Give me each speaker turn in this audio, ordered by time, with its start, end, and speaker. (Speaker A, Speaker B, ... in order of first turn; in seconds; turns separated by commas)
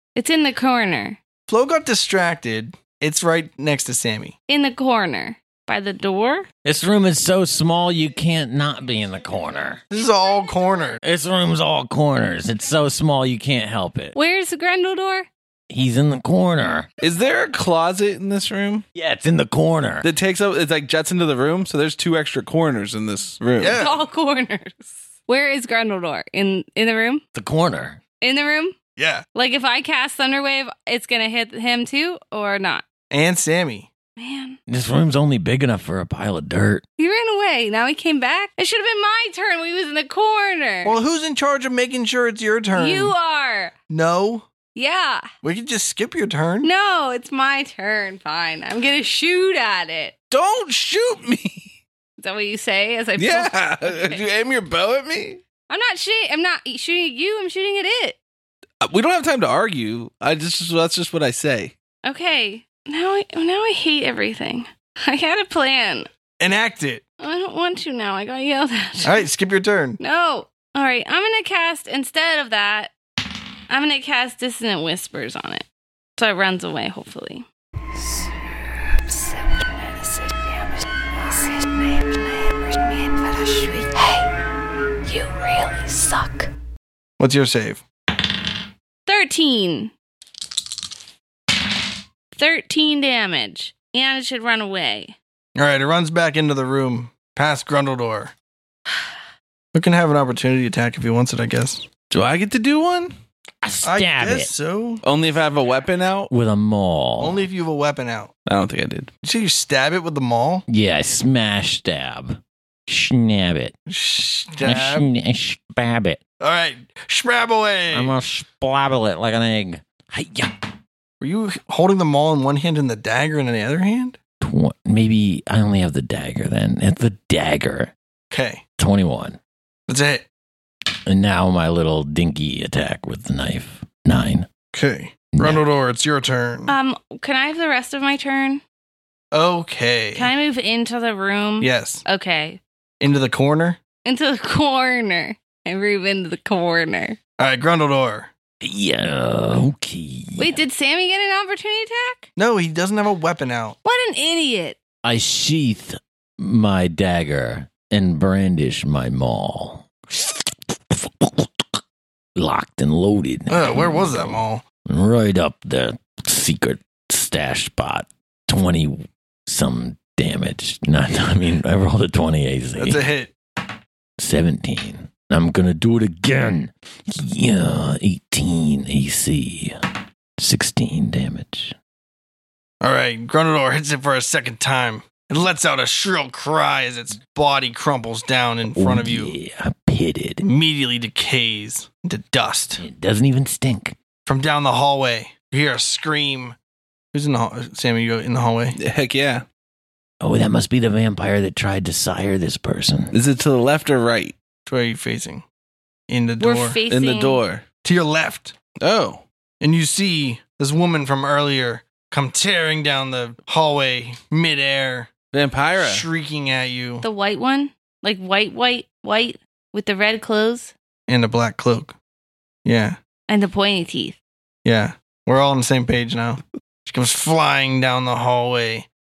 Speaker A: 0.2-1.2, Speaker B: 1.5-4.3, Speaker A: 4.5-6.5, Speaker C: 6.7-9.8, Speaker B: 9.9-11.0, Speaker C: 11.0-14.2, Speaker A: 14.1-15.3, Speaker C: 15.7-16.9, Speaker D: 17.0-18.9, Speaker C: 18.9-20.1, Speaker D: 20.0-23.8, Speaker B: 23.6-24.0, Speaker A: 23.8-27.2, Speaker C: 27.4-28.0, Speaker A: 28.2-28.8, Speaker B: 29.0-29.2, Speaker A: 29.4-32.9, Speaker B: 33.1-33.9, Speaker A: 34.2-34.6, Speaker C: 34.7-36.8, Speaker A: 37.0-41.0, Speaker B: 40.8-43.1, Speaker A: 42.7-43.7, Speaker B: 43.9-44.5, Speaker A: 44.8-45.3, Speaker B: 45.4-46.7, Speaker A: 46.6-50.1, Speaker D: 50.3-51.8, Speaker A: 52.2-54.2, Speaker D: 53.2-55.4, Speaker A: 55.7-58.2, Speaker D: 58.8-61.7, Speaker A: 62.0-66.1, Speaker B: 66.4-67.0, Speaker A: 67.2-69.2, Speaker B: 69.0-70.0, Speaker A: 70.0-72.9, Speaker A: 73.7-75.7, Speaker A: 76.2-77.5, Speaker E: 79.1-84.3, Speaker E: 85.0-86.5, Speaker B: 87.2-87.8, Speaker A: 89.1-89.9, Speaker A: 92.4-95.2, Speaker B: 95.6-98.3, Speaker B: 99.7-101.9, Speaker D: 102.1-103.2, Speaker C: 103.6-104.5, Speaker B: 103.8-105.0, Speaker D: 105.0-106.3, Speaker C: 106.3-107.4, Speaker B: 107.2-108.3, Speaker D: 108.5-109.1, Speaker B: 109.2-110.6, Speaker C: 110.7-113.8, Speaker B: 113.9-115.1, Speaker C: 114.6-116.2, Speaker B: 116.4-118.2, Speaker C: 117.9-120.6, Speaker B: 121.2-124.2, Speaker C: 124.4-127.9, Speaker B: 128.3-128.6, Speaker C: 128.8-129.4, Speaker B: 129.9-130.3, Speaker C: 131.1-134.5, Speaker B: 134.7-136.8, Speaker C: 135.3-135.6, Speaker A: 136.7-138.6, Speaker B: 139.3-140.3, Speaker A: 140.2-142.6, Speaker B: 141.6-142.0, Speaker B: 143.0-143.8, Speaker A: 144.1-147.2, Speaker B: 147.4-148.3, Speaker C: 148.6-150.6, Speaker A: 150.4-152.3, Speaker B: 152.4-153.8, Speaker A: 153.8-154.8, Speaker C: 155.0-161.8, Speaker C: 162.3-173.1, Speaker B: 163.5-164.6, Speaker B: 172.8-173.3, Speaker C: 174.2-179.8, Speaker C: 180.4-181.8, Speaker B: 182.8-189.3, Speaker C: 188.7-190.4, Speaker B: 190.4-192.8, Speaker C: 192.8-194.0, Speaker B: 194.3-196.6, Speaker B: 197.1-198.8, Speaker D: 198.7-199.4, Speaker C: 200.2-203.2, Speaker D: 203.1-204.3, Speaker B: 204.7-205.4, Speaker B: 206.1-206.8, Speaker A: 206.4-207.4, Speaker D: 206.9-207.7, Speaker B: 207.8-208.6, Speaker D: 208.8-209.2, Speaker B: 209.6-215.1, Speaker D: 215.3-216.1, Speaker B: 215.8-217.1, Speaker A: 217.0-220.7, Speaker B: 221.1-221.9, Speaker B: 222.7-223.0, Speaker A: 223.3-224.2, Speaker B: 224.7-228.9